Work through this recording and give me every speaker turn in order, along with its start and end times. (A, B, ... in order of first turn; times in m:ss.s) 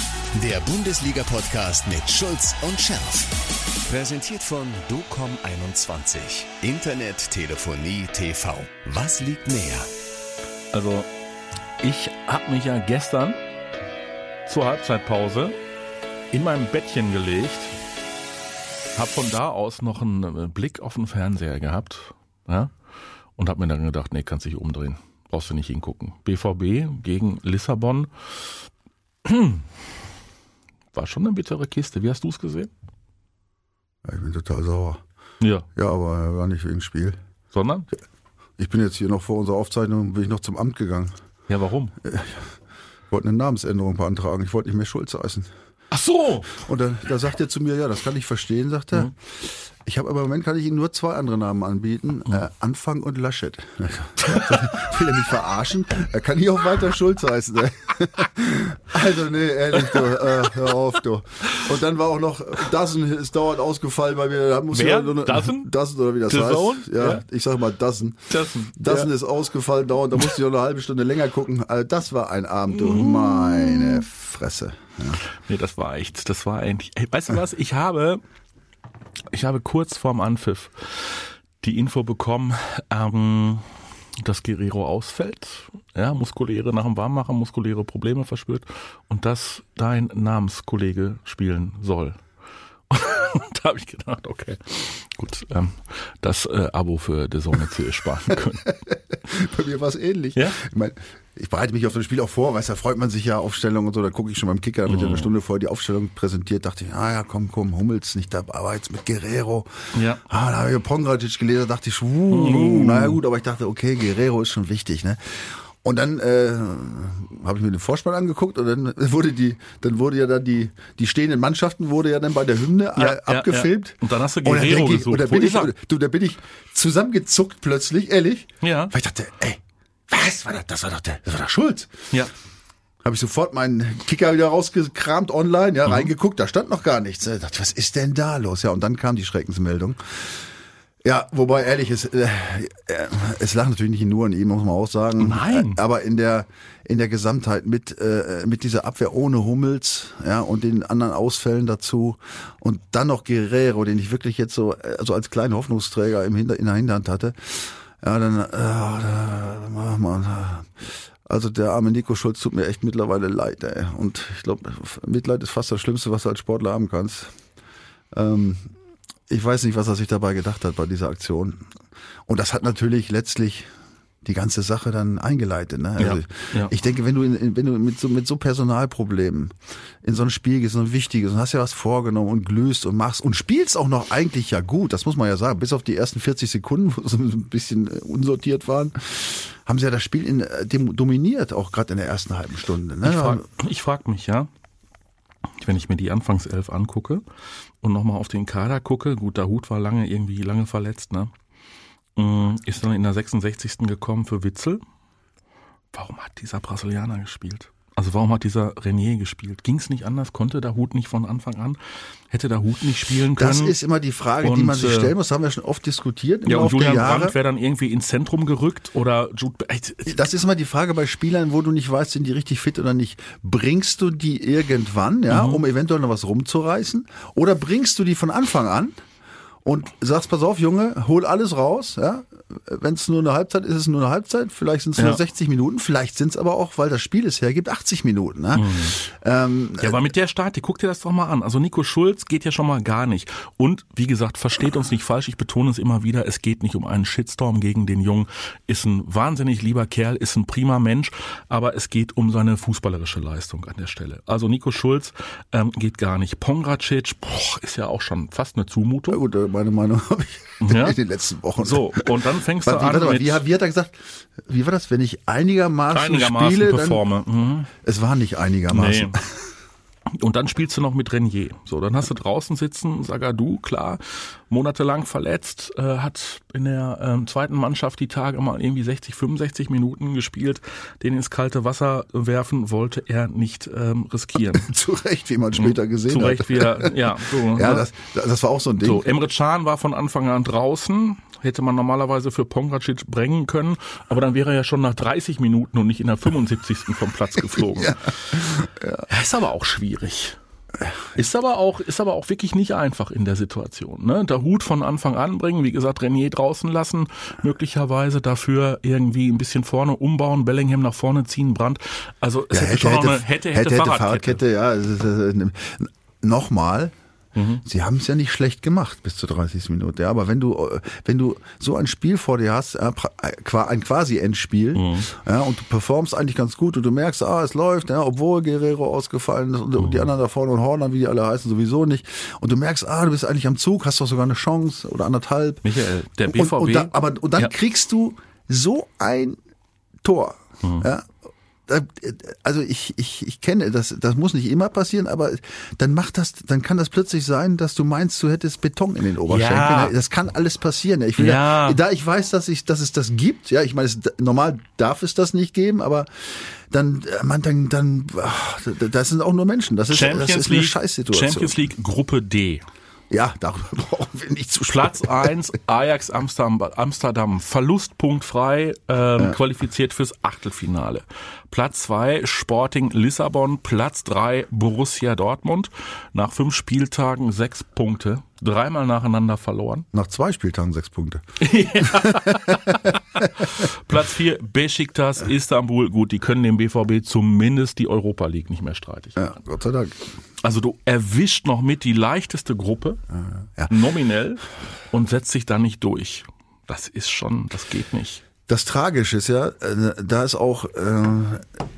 0:00.3-0:03.3 A
0:03.8-0:09.9 A
0:10.7-0:11.1 B
0:11.8-0:13.4 B
0:14.4-0:15.6 B
0:16.3-0:17.7 B
0:18.9-0:22.7 B
0:23.4-0:28.1 B
0:29.2-0:29.6 B
0:30.9-0:32.7 B
0:34.0-0:35.0 C
0:35.4-0:35.7 B
0:35.7-0:37.2 C
0:37.5-0:37.9 B
0:38.6-0:41.1 C
0:41.5-0:41.9 B
0:42.0-0:42.4 C
0:43.1-0:45.5 C
0:45.9-0:46.5 B
0:46.5-1:15.2 C
0:54.2-0:54.5 B
0:59.8-1:00.5 B
1:04.7-1:05.7 B
1:06.3-1:07.2 B
1:08.3-1:09.1 B
1:12.7-1:14.0 B
1:15.4-1:18.2 B
1:19.3-1:23.6 B
1:24.2-1:32.2 B
1:32.9-1:38.7 B
1:38.7-1:49.7 C
1:44.9-1:45.3 B
1:49.9-1:50.2 B
1:50.2-2:11.9 C
1:52.3-1:53.2 B
2:03.0-2:05.7 B
2:08.6-2:08.9 B
2:13.0-2:20.4 C
2:21.0-2:47.3 C
2:25.2-2:25.8 B
2:48.1-2:48.7 C
2:49.3-2:51.7 C
2:52.3-2:53.7 C
2:54.2-3:13.4 C
2:56.0-2:56.7 B
3:13.0-3:14.5 B
3:15.6-3:17.2 B
3:17.8-3:21.3 B
3:22.2-3:24.8 B
3:25.9-3:31.8 B
3:32.3-3:33.8 B
3:33.4-3:37.4 C
3:34.4-3:35.1 B
3:36.4-3:40.2 B
3:40.1-3:48.9 C
3:45.3-3:45.6 B
3:49.6-4:00.0 C
3:58.5-3:59.0 B
3:59.8-4:19.2 B
4:19.1-4:22.1 C
4:20.6-4:21.0 B
4:21.6-4:23.4 B
4:22.6-4:27.0 C
4:25.9-4:27.7 B
4:27.8-4:29.5 C
4:28.7-4:29.2 B
4:30.1-4:44.7 B
4:44.5-4:49.1 C
4:45.5-4:47.9 B
4:48.8-4:58.4 B
4:57.5-4:59.0 C
4:59.1-5:00.4 B
5:01.1-5:14.4 B
5:12.5-5:16.9 C
5:17.3-5:17.6 B
5:17.6-5:35.6 C
5:24.7-5:25.1 B
5:29.8-5:30.1 B
5:35.6-5:37.5 B
5:36.3-5:39.4 C
5:40.0-5:41.1 C
5:41.7-6:01.6 C
5:49.2-5:49.9 B
5:51.2-5:51.8 B
5:59.9-6:02.6 B
6:03.1-6:05.3 C
6:04.7-6:19.8 B
6:19.9-6:21.2 C
6:21.4-6:29.3 B
6:21.7-6:23.5 C
6:29.2-6:30.0 C
6:30.4-6:33.0 B
6:33.7-6:38.2 B
6:38.5-6:41.5 C